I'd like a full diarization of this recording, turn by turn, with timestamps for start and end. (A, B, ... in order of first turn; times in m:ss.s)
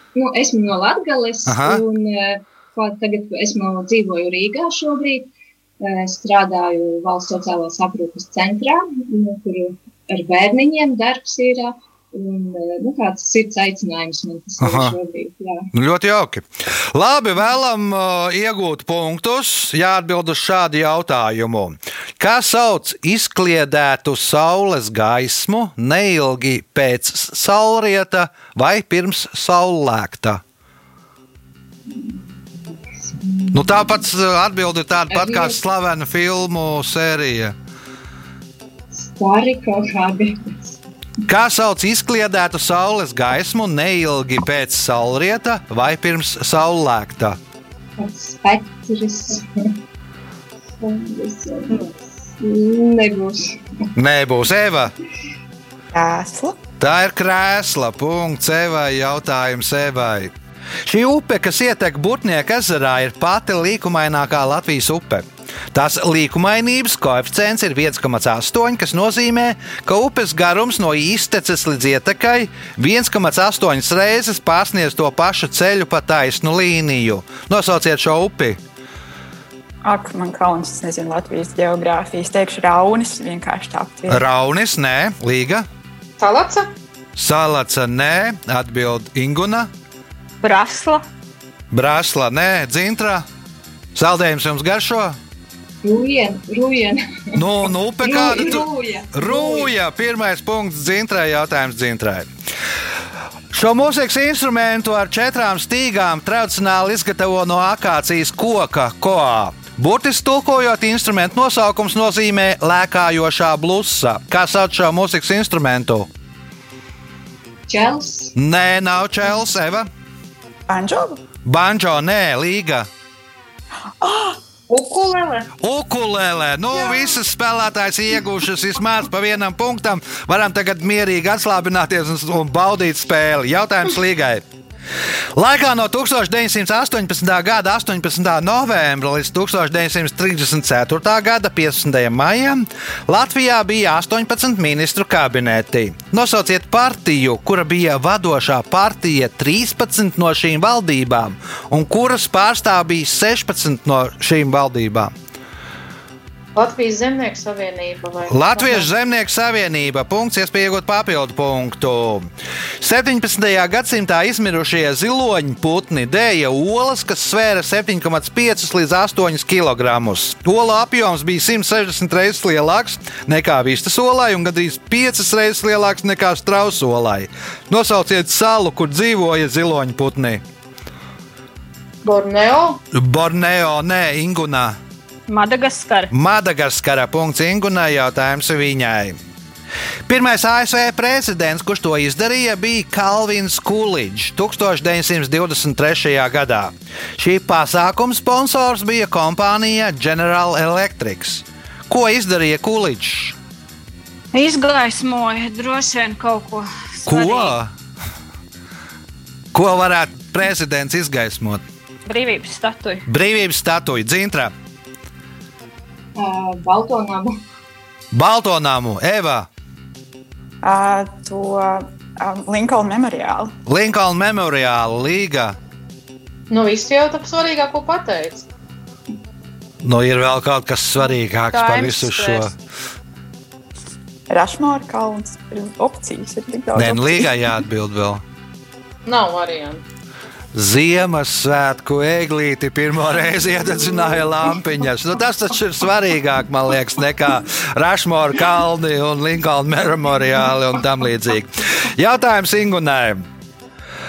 0:00.2-0:15.7 A
0:01.5-0:01.8 B
0:14.6-0:15.0 B
0:15.7-0:30.4 B
0:31.9-0:33.8 A
0:33.5-0:37.6 B
0:35.1-0:35.5 A
0:39.0-0:40.8 A
0:41.3-0:47.4 B
0:48.0-0:49.8 A
0:50.8-0:53.8 A
0:54.0-0:54.9 B
0:55.9-0:56.6 C
0:56.8-1:00.3 B
1:00.8-1:18.6 B
1:19.8-1:24.2 C
1:24.1-1:25.7 B
1:26.2-1:26.7 D
1:27.2-1:29.7 B
1:30.4-1:31.0 E
1:31.7-1:33.3 B
1:34.0-1:35.2 B
1:35.8-1:37.5 A
1:37.4-1:42.3 B
1:38.0-1:39.7 A
1:43.5-1:56.1 B
1:57.7-1:58.4 A
1:58.4-1:59.9 B
2:00.7-2:01.2 C
2:01.4-2:02.9 B
2:04.0-2:04.4 C
2:04.7-2:05.5 D
2:05.6-2:14.4 B
2:15.4-2:35.1 B
2:36.6-2:38.9 D
2:38.3-2:42.3 B
2:42.8-3:00.4 B
3:02.0-3:02.8 D
3:02.9-3:04.8 B
3:05.3-3:06.1 E
3:06.1-3:09.2 B
3:10.1-3:23.4 B
3:24.3-3:27.6 E
3:27.1-3:27.7 B
3:29.5-3:31.6 B
3:32.1-3:33.0 E
3:33.1-3:34.5 B
3:36.2-3:37.4 A
3:38.1-3:39.5 B
3:40.6-3:43.6 C
3:43.7-3:45.6 B
3:46.5-3:48.5 D
3:49.8-3:52.5 B
3:51.5-3:52.5 E
3:54.3-3:57.3 C
3:56.7-3:58.2 B
3:59.1-3:59.8 D
4:00.5-4:13.3 B